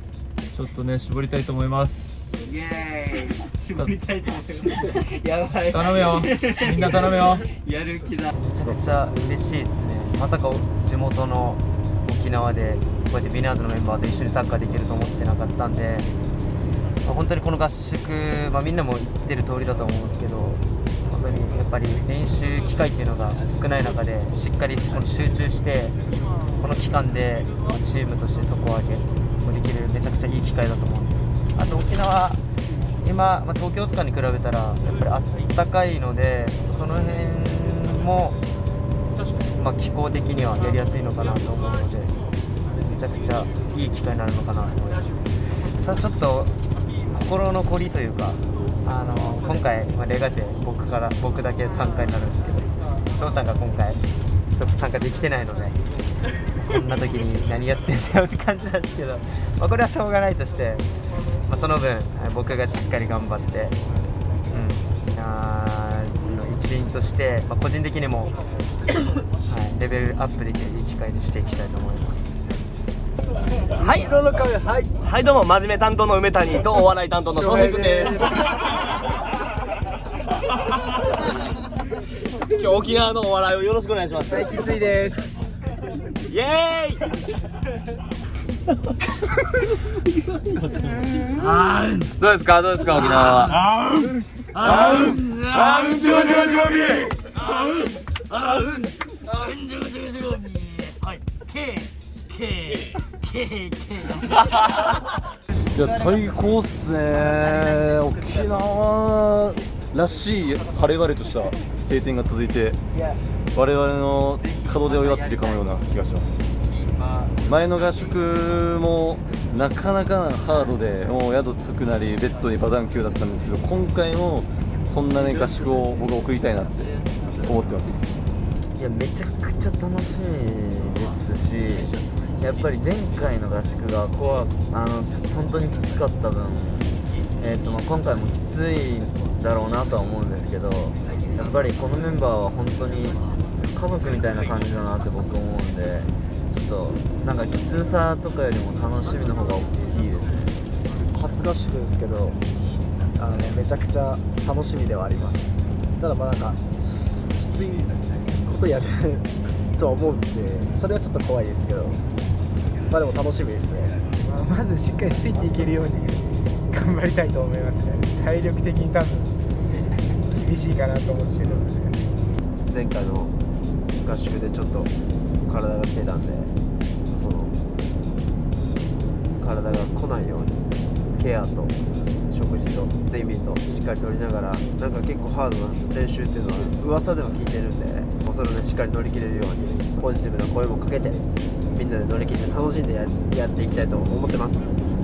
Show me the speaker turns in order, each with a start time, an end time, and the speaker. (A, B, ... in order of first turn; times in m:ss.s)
0:00.6-0:02.2 A
0:02.4-0:08.3 B
0:05.7-0:07.4 A
0:08.4-0:16.1 C
0:17.0-0:26.0 C
0:26.6-0:32.4 C
0:33.0-0:38.4 C
0:39.6-0:42.1 C
0:42.8-0:46.5 C
0:47.1-0:54.0 C
0:54.5-0:55.8 C
0:56.7-1:00.9 C
1:01.5-1:03.8 C
1:04.5-1:08.4 C
1:09.5-1:12.6 C
1:13.8-1:18.3 B
1:17.4-1:18.2 D
1:22.5-1:24.7 B
1:24.3-1:25.2 D
1:26.3-1:27.0 B
1:32.4-1:33.4 B
1:34.6-1:35.2 B
1:45.7-1:52.8 E
1:53.5-1:56.5 E
1:57.4-2:08.2 E
2:08.8-2:30.6 F
2:31.1-2:32.4 G
2:33.2-2:42.0 G
2:42.9-2:44.0 G
2:44.2-2:49.4 D
2:50.3-2:52.1 D
2:52.7-2:53.4 H
2:54.0-2:54.9 H
2:55.4-2:56.5 H
2:57.1-2:57.6 H
2:59.4-3:14.9 H